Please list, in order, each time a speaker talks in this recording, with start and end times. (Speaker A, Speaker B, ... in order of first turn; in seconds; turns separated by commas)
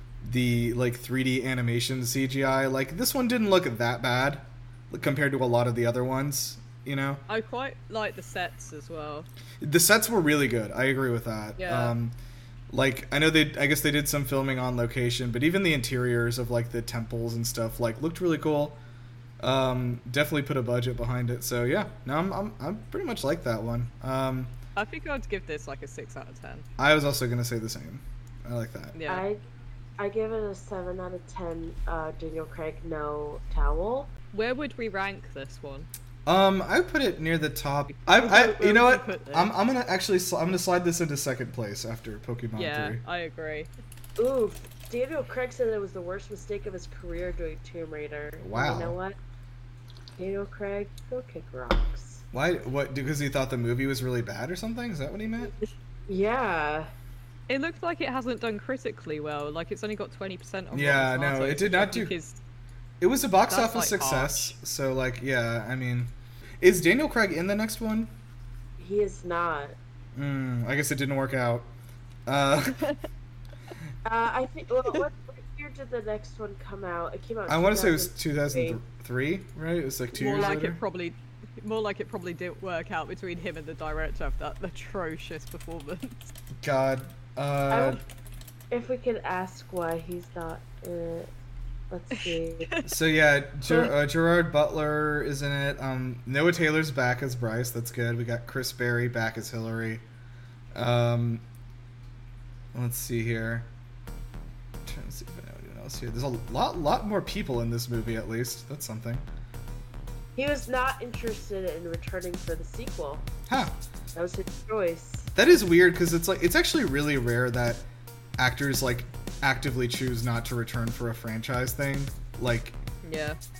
Speaker A: 0.2-7.2, Speaker B: 7.3-9.3, Speaker A: 9.6-12.2, Speaker B: 11.6-11.9, Speaker A: 12.7-18.8, Speaker A: 19.4-24.5, Speaker B: 24.8-26.6, Speaker A: 26.8-29.0, Speaker B: 28.9-29.2, Speaker C: 29.1-29.4, Speaker C: 30.0-34.1, Speaker B: 34.3-35.9, Speaker A: 36.2-43.0, Speaker B: 37.9-39.5, Speaker B: 42.5-43.7, Speaker C: 44.2-49.2, Speaker A: 48.4-49.0, Speaker C: 50.2-52.2, Speaker A: 52.3-55.5, Speaker C: 56.1-56.9, Speaker B: 57.5-62.4, Speaker A: 60.7-62.1, Speaker A: 63.0-68.1, Speaker B: 63.5-64.5, Speaker C: 68.8-69.8, Speaker A: 70.1-71.7, Speaker A: 72.3-72.8, Speaker C: 74.0-78.8, Speaker A: 77.5-80.8, Speaker B: 80.2-86.3, Speaker C: 80.2-80.6, Speaker A: 86.6-88.0, Speaker C: 87.7-88.0, Speaker C: 88.7-91.3, Speaker C: 91.9-92.8, Speaker A: 92.8-100.0, Speaker A: 100.7-101.4, Speaker A: 102.7-103.7, Speaker A: 104.8-109.2, Speaker C: 110.3-113.3, Speaker A: 113.5-113.7, Speaker C: 114.1-115.3, Speaker A: 115.3-117.8, Speaker A: 118.4-122.8, Speaker B: 123.0-123.4